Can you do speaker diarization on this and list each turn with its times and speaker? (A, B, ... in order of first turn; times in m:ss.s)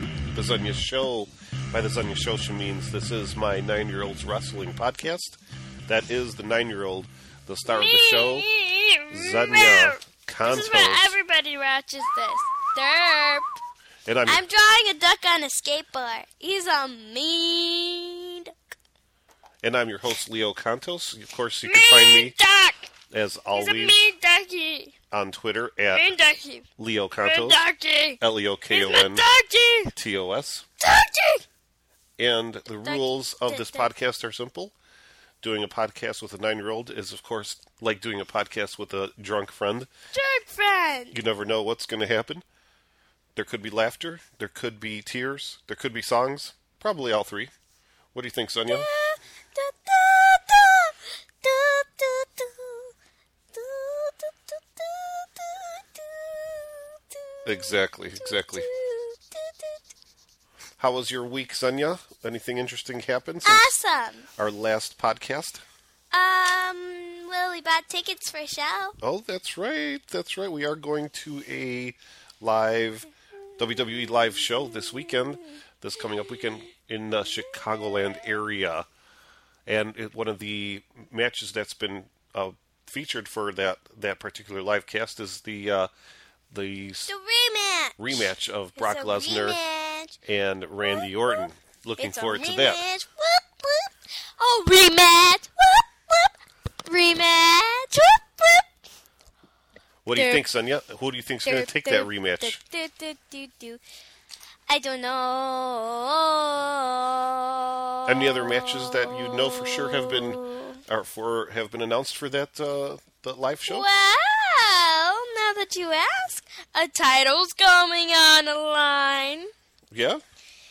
0:00.3-0:08.5 A
0:07.6-0:13.5 B
0:09.1-0:11.2 A
0:14.0-0:14.4 A
0:14.3-0:18.5 B
0:19.6-0:22.4 A
0:21.6-0:22.9 B
0:23.1-0:24.1 A
0:23.5-0:24.9 B
0:25.1-0:26.1 A
0:25.9-0:26.7 B
0:26.8-0:27.6 A
0:27.2-0:29.9 B
0:28.2-0:29.2 A
0:29.9-0:30.6 A
0:30.8-0:31.4 B
0:32.2-0:34.7 A
0:32.8-0:33.9 B
0:35.4-0:39.9 A
0:40.1-0:41.2 B
0:41.1-0:42.4 A
0:43.3-0:47.5 A
0:48.1-0:48.9 A
0:48.7-0:52.9 B
0:53.5-0:59.8 B
0:57.4-0:58.7 A
1:00.8-1:03.7 A
1:03.4-1:04.3 B
1:04.4-1:05.6 A
1:06.1-1:09.0 B
1:09.0-1:18.8 A
1:13.5-1:15.6 B
1:16.1-1:16.5 B
1:19.6-1:25.9 A
1:26.5-1:27.1 A
1:27.1-1:28.2 B
1:28.0-1:29.6 A
1:28.8-1:30.2 B
1:30.2-1:32.8 A
1:30.8-1:31.4 B
1:32.0-1:38.7 B
1:40.0-1:42.6 A
1:40.1-1:40.4 B
1:41.4-1:43.8 B
1:44.7-1:50.8 B
1:48.0-1:53.9 A
1:53.6-1:59.5 B
1:59.9-2:00.2 A